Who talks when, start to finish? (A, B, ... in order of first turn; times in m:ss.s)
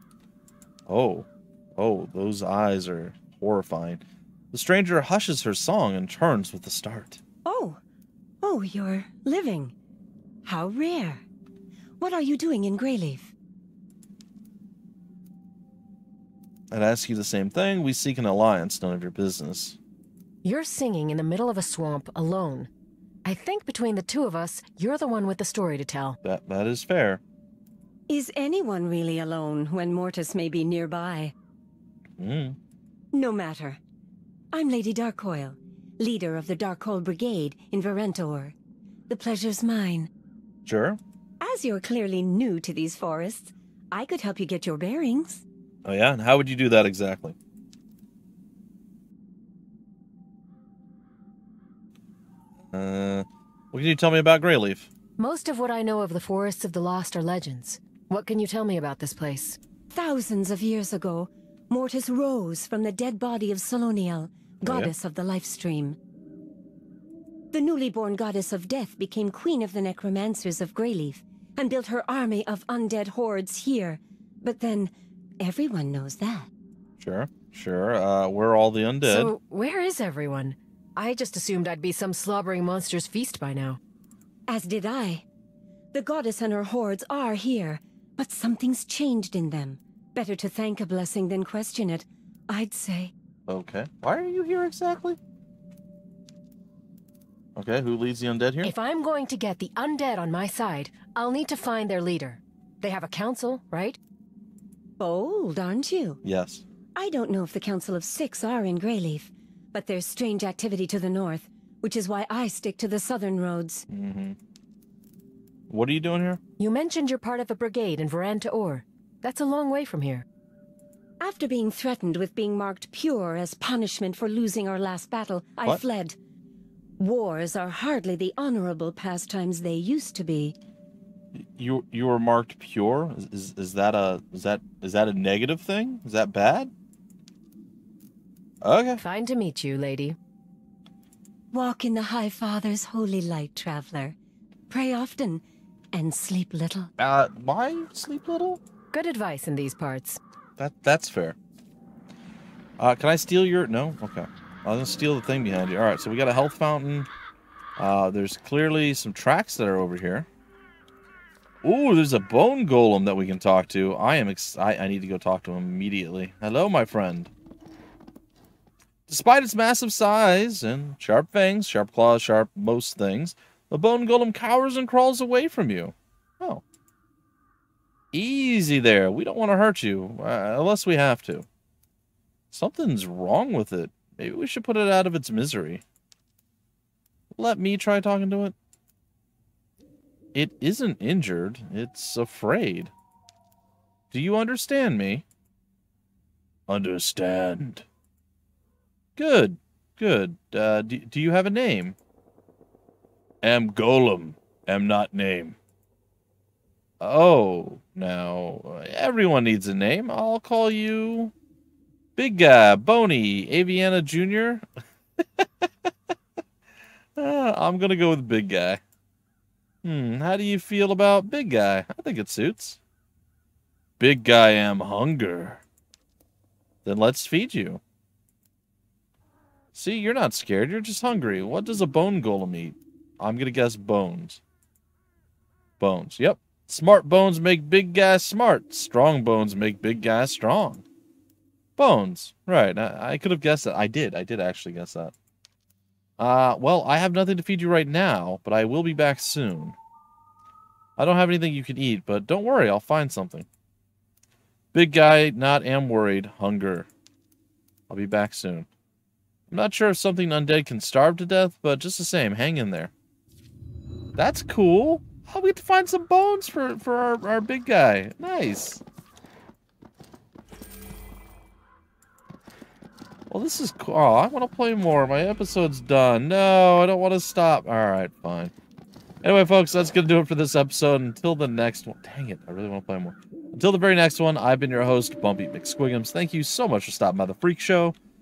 0:00.9-0:07.2 A
0:07.4-0:07.8 B
0:08.4-0:09.7 B
0:10.4-0:11.2 B
0:12.0-0:13.3 B
0:16.7-0:19.8 A
0:20.4-0:22.7 C
0:23.2-0:26.2 C
0:26.2-0:27.2 A
0:28.1-0:31.3 B
0:32.2-0:32.6 A
0:33.1-0:33.8 B
0:34.5-0:38.5 B
0:39.1-0:40.1 B
0:40.6-0:41.0 A
0:41.4-0:45.4 B
0:45.8-0:47.4 A
0:52.7-0:54.9 A
0:55.2-0:59.6 C
0:59.9-1:06.0 B
1:04.6-1:04.9 A
1:07.5-1:16.5 B
1:17.0-1:19.3 A
1:19.0-1:23.8 C
1:24.5-1:25.2 B
1:25.9-1:33.1 B
1:33.5-1:35.2 A
1:37.6-1:38.7 A
1:38.6-1:44.0 C
1:45.0-1:46.2 B
1:46.2-1:46.6 A
1:47.0-1:53.8 B
1:53.9-1:54.4 A
1:55.7-1:56.4 A
1:56.6-2:00.2 C
2:01.2-2:06.2 B
2:07.0-2:10.5 B
2:11.3-2:16.7 A
2:18.6-2:19.0 A
2:19.0-2:20.2 C
2:21.5-2:24.1 B
2:24.7-2:25.4 B
2:25.9-2:26.9 B
2:27.0-2:28.6 A
2:28.9-2:30.2 C
2:30.6-2:31.4 A
2:32.8-2:37.1 A
2:37.8-2:40.3 A
2:41.6-2:47.3 A
2:49.1-2:56.6 A
2:58.1-3:01.4 A
3:02.5-3:05.8 A
3:07.3-3:08.5 A
3:10.3-3:12.9 A
3:14.1-3:15.2 A
3:16.7-3:17.8 A
3:19.2-3:22.0 A
3:23.4-3:25.6 A
3:27.0-3:31.3 A
3:32.2-3:34.6 A
3:35.2-3:35.9 A
3:37.2-3:38.8 A
3:39.8-3:42.8 A
3:44.0-3:45.6 A
3:46.8-3:47.8 A
3:49.7-3:54.4 A
3:55.8-4:00.8 A
4:01.8-4:05.1 A
4:06.2-4:09.8 A
4:11.0-4:13.5 A
4:14.7-4:16.9 A
4:17.9-4:18.7 A
4:19.5-4:22.9 A
4:24.2-4:28.8 A
4:33.3-4:38.5 A
4:39.2-4:48.0 A